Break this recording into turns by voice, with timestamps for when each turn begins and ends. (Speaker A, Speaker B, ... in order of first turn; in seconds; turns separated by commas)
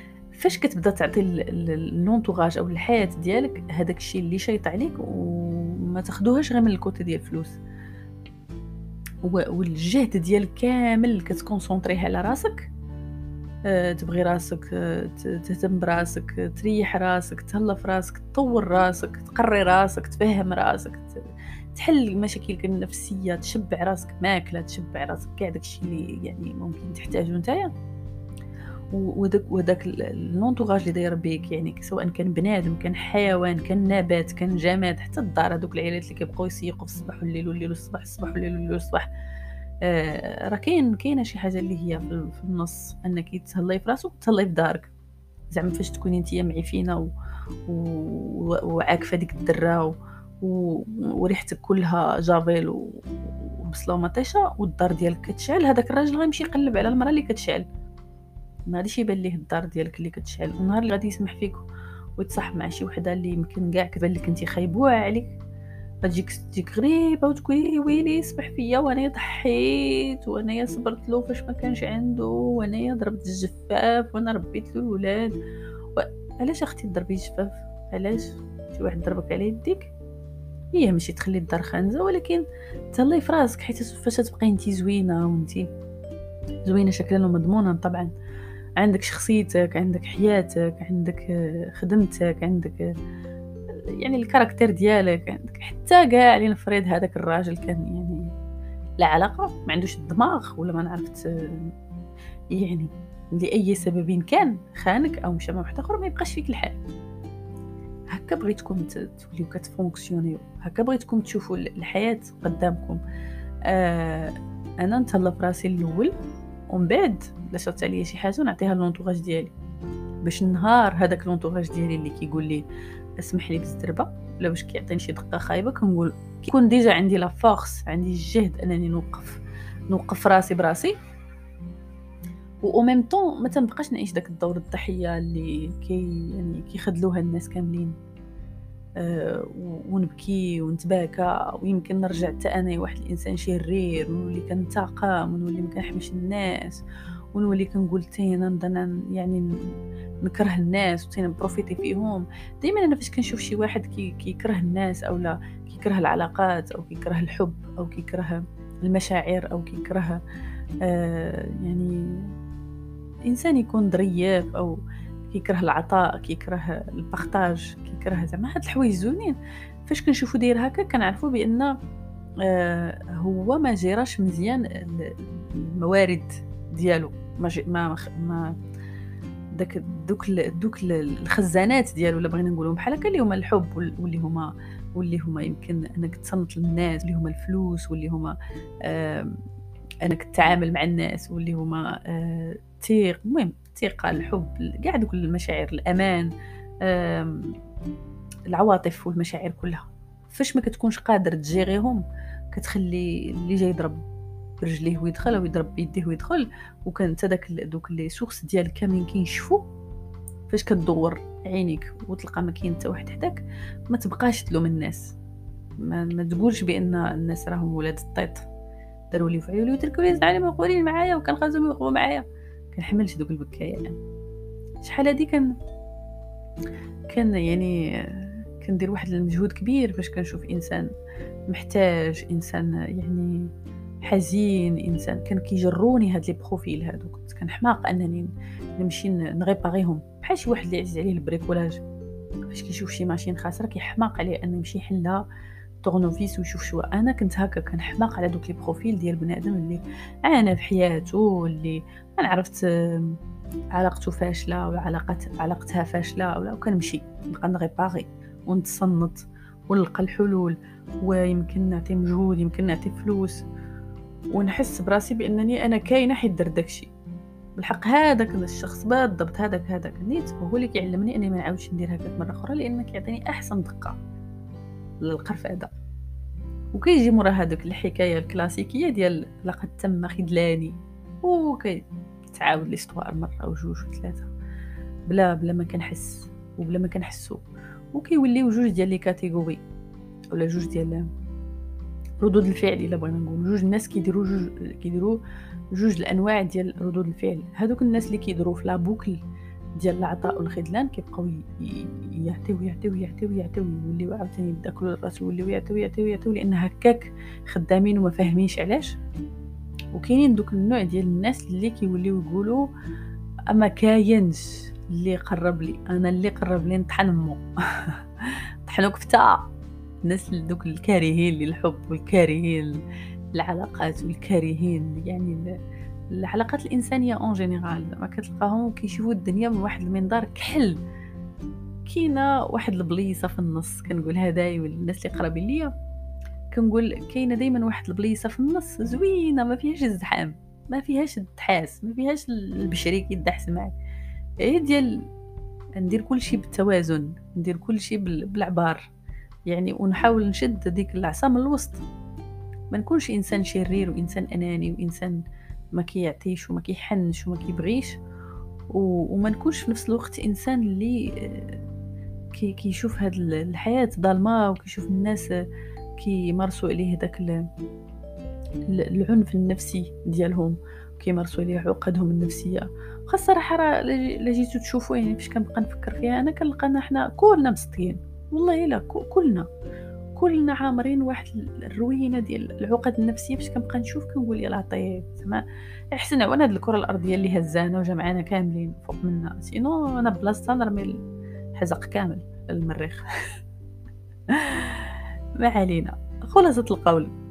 Speaker A: 0.3-7.6, Speaker A: 9.2-12.7, Speaker A: 13.7-27.7, Speaker A: 28.9-39.1, Speaker A: 39.8-44.9, Speaker A: 45.5-47.1, Speaker A: 47.7-57.7, Speaker A: 58.7-61.7, Speaker A: 62.2-65.4, Speaker A: 66.0-75.3, Speaker A: 76.0-79.9, Speaker A: 80.7-85.7, Speaker A: 86.7-88.1, Speaker A: 88.8-92.9, Speaker A: 93.7-98.3, Speaker A: 99.0-101.7, Speaker A: 102.5-106.8, Speaker A: 108.1-113.0, Speaker A: 113.7-116.1, Speaker A: 116.7-119.5, Speaker A: 120.2-122.6, Speaker A: 123.2-130.9, Speaker A: 132.6-137.9, Speaker A: 139.0-146.8, Speaker A: 147.3-149.5, Speaker A: 150.2-160.2, Speaker A: 160.8-162.3, Speaker A: 163.3-171.8, Speaker A: 172.4-178.6, Speaker A: 179.6-189.4, Speaker A: 190.0-196.3, Speaker A: 196.8-197.5, Speaker A: 198.5-204.0, Speaker A: 204.6-209.7, Speaker A: 210.5-215.2, Speaker A: 215.8-218.5, Speaker A: 219.1-224.0, Speaker A: 224.8-225.5, Speaker A: 227.1-230.9, Speaker A: 231.5-233.5, Speaker A: 234.0-241.8, Speaker A: 242.5-245.2, Speaker A: 245.8-253.2, Speaker A: 253.7-263.4, Speaker A: 264.3-266.9, Speaker A: 267.6-274.0, Speaker A: 275.0-275.7, Speaker A: 276.7-281.8, Speaker A: 282.3-284.3, Speaker A: 285.1-289.6, Speaker A: 290.3-291.1, Speaker A: 292.2-295.2, Speaker A: 295.7-299.2, Speaker A: 299.8-309.0, Speaker A: 309.9-312.7, Speaker A: 313.5-319.5, Speaker A: 320.0-322.8, Speaker A: 323.3-325.5, Speaker A: 326.1-330.8, Speaker A: 331.9-335.7, Speaker A: 336.5-343.8, Speaker A: 344.4-345.1, Speaker A: 345.8-348.9, Speaker A: 349.5-351.8, Speaker A: 352.7-355.2, Speaker A: 355.8-358.0, Speaker A: 358.7-361.6, Speaker A: 362.3-365.3, Speaker A: 366.0-367.5, Speaker A: 368.7-379.5, Speaker A: 380.2-391.0, Speaker A: 391.6-393.1, Speaker A: 394.3-397.1